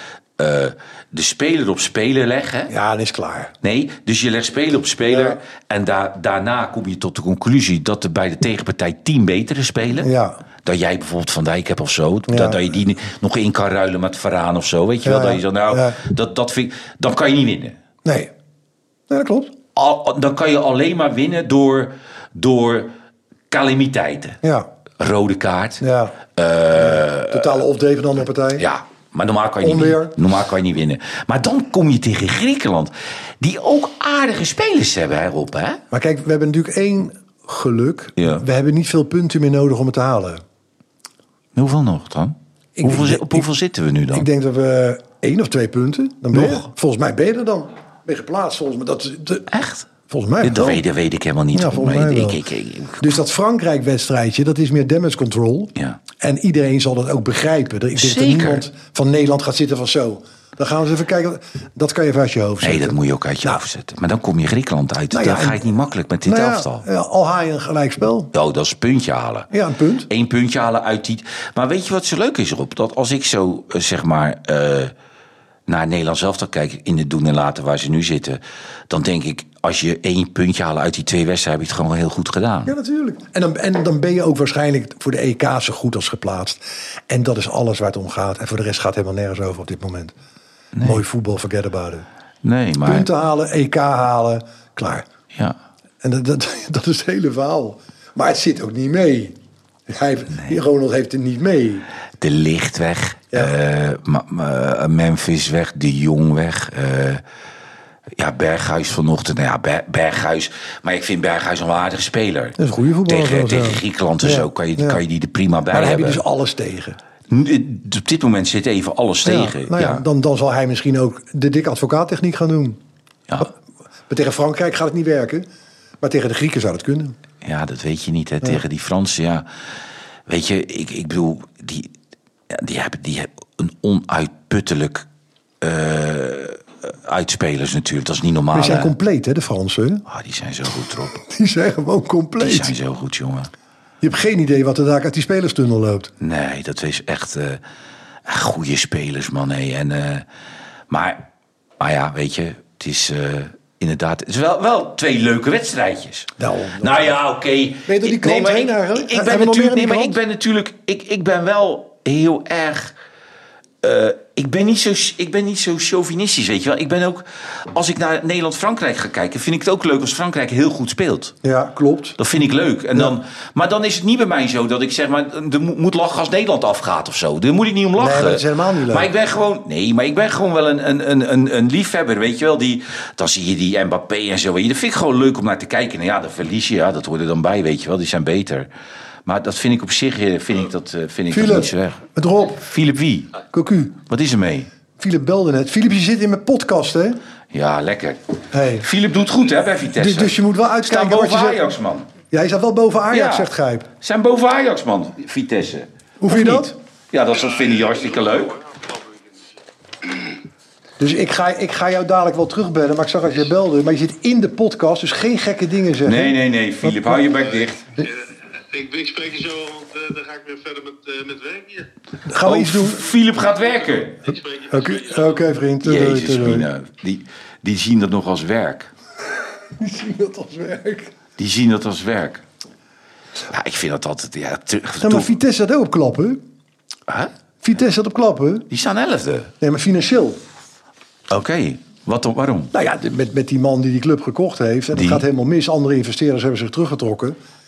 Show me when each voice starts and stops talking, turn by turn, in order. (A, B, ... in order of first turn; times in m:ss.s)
0:00.4-0:02.7 A
0:02.7-0:03.5 B
0:03.6-0:10.1 A
0:05.1-0:05.4 B
0:10.0-0:10.4 B
0:10.6-0:17.8 A
0:12.3-0:12.6 B
0:15.0-0:16.0 B
0:18.0-0:18.3 B
0:19.1-0:19.5 B
0:19.7-0:22.9 A
0:23.5-0:24.4 A
0:24.4-0:24.7 B
0:25.0-0:25.8 A
0:25.8-0:26.1 B
0:26.3-0:27.6 A
0:26.7-0:28.6 B
0:28.6-0:35.8 A
0:29.6-0:30.2 B
0:35.9-0:40.4 B
0:38.2-0:38.4 A
0:41.5-0:44.3 A
0:42.8-0:43.5 B
0:44.1-0:49.5 B
0:46.3-0:46.6 A
0:49.5-0:49.9 A
0:50.1-0:50.8 B
0:50.4-0:53.2 A
0:51.5-0:52.4 B
0:53.0-1:03.6 B
0:58.0-0:58.7 A
1:02.6-1:06.8 A
1:05.1-1:05.6 B
1:06.2-1:08.3 B
1:08.3-1:09.5 A
1:09.5-1:10.1 B
1:10.1-1:14.9 A
1:15.7-1:22.7 A
1:22.6-1:30.1 B
1:30.7-1:31.0 A
1:30.8-1:32.0 B
1:32.4-1:33.1 A
1:32.8-1:35.0 B
1:36.0-1:39.4 B
1:39.9-1:41.8 B
1:42.2-1:47.2 A
1:48.2-1:56.2 A
1:52.6-1:55.0 B
1:55.7-1:57.0 B
1:57.3-2:00.0 A
1:59.2-2:02.8 B
2:04.1-2:05.4 B
2:06.0-2:07.1 B
2:07.4-2:09.5 A
2:10.3-2:11.9 A
2:12.5-2:15.0 A
2:15.6-2:18.9 A
2:18.5-2:20.0 B
2:20.1-2:21.1 A
2:21.1-2:22.7 B
2:22.4-2:23.5 A
2:24.0-2:26.1 B
2:26.2-2:27.6 A
2:28.2-2:30.2 A
2:30.9-2:31.2 A
2:31.8-2:42.9 A
2:36.4-2:37.2 B
2:37.8-2:40.2 B
2:43.8-2:51.3 A
2:51.4-2:52.2 B
2:52.2-3:08.7 A
2:58.0-2:59.1 B
3:09.2-3:13.4 A
3:11.3-3:12.6 B
3:13.5-3:14.0 B
3:14.1-3:14.7 A
3:15.0-3:17.2 B
3:17.5-3:18.2 A
3:18.5-3:18.9 B
3:18.8-3:22.1 A
3:19.9-3:21.7 B
3:22.3-3:23.9 B
3:23.1-3:28.6 A
3:26.2-3:26.7 B
3:27.7-3:29.4 C
3:31.0-3:37.2 B
3:36.0-3:37.9 A
3:37.5-3:41.9 C
3:42.3-3:43.0 B
3:42.4-3:44.3 A
3:44.2-3:45.3 C
3:44.7-3:46.7 B
3:45.8-3:48.9 A
3:49.7-3:51.1 B
3:51.4-3:52.4 A
3:53.5-3:55.3 A
3:55.0-3:56.4 B
3:57.6-3:58.7 B
3:58.7-3:59.5 A
3:59.6-4:00.4 B
4:01.3-4:02.7 A
4:02.7-4:07.4 B
4:04.9-4:05.2 A